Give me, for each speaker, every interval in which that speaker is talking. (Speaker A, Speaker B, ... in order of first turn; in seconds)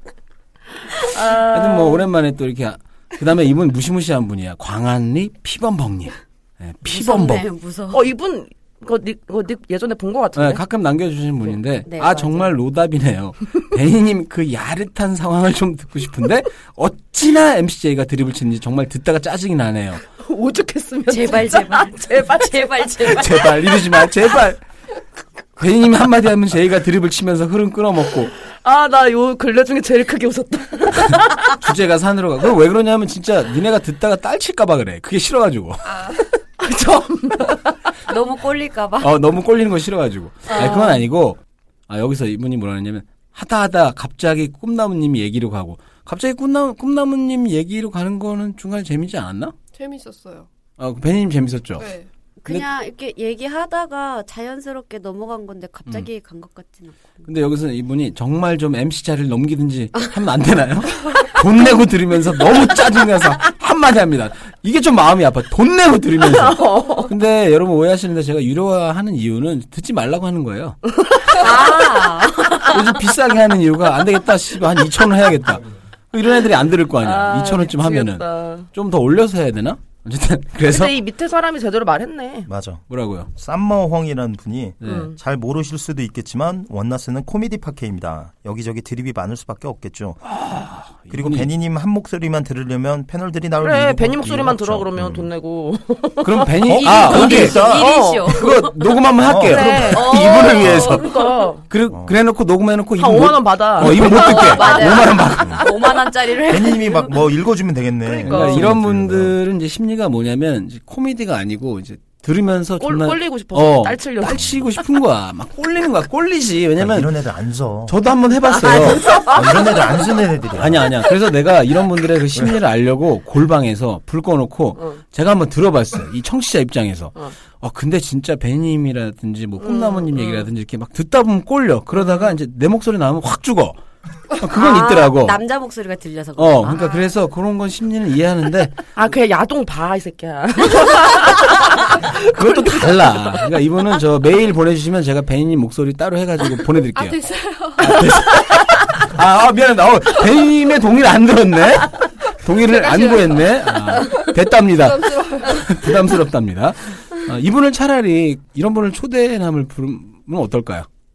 Speaker A: 0.9-2.1, 7.9-10.6, 20.1-23.9, 28.4-31.5, 36.6-37.9, 66.2-67.1, 71.0-71.8, 77.0-78.7, 80.7-82.5, 84.8-85.2, 93.6-98.4, 99.5-101.7, 103.0-105.3, 108.0-108.6, 112.8-114.5, 118.6-119.9, 129.6-130.5, 131.9-132.3, 136.7-137.2, 138.9-143.4
Speaker B: 1.4-7.5, 10.3-20.0, 23.0-24.6, 25.6-28.3, 31.6-36.0, 39.0-49.5, 50.8-51.9, 57.2-70.8, 72.7-81.0, 82.9-83.3, 84.8-85.1, 90.2-91.5, 96.2-97.6, 98.3-101.1, 101.7-105.7, 108.2-117.2, 117.8-119.4, 120.5-133.8, 134.4-135.4, 136.4-138.8, 141.7-147.2, 147.8-160.9
Speaker C: 6.8-8.1, 11.8-12.6, 21.1-23.5, 38.1-39.1, 40.5-41.0, 52.4-57.2, 71.3-73.0, 96.8-101.5, 103.9-107.1, 134.5-136.8
Speaker D: 49.8-50.5, 51.8-52.1, 146.9-147.9, 152.7-153.6, 154.8-155.5
Speaker E: 82.5-82.8, 83.3-90.2, 91.1-95.3, 96.7-97.9, 99.2-99.7, 100.5-101.0, 101.9-102.2, 105.4-105.8, 106.4-109.4, 116.8-117.9, 118.8-120.9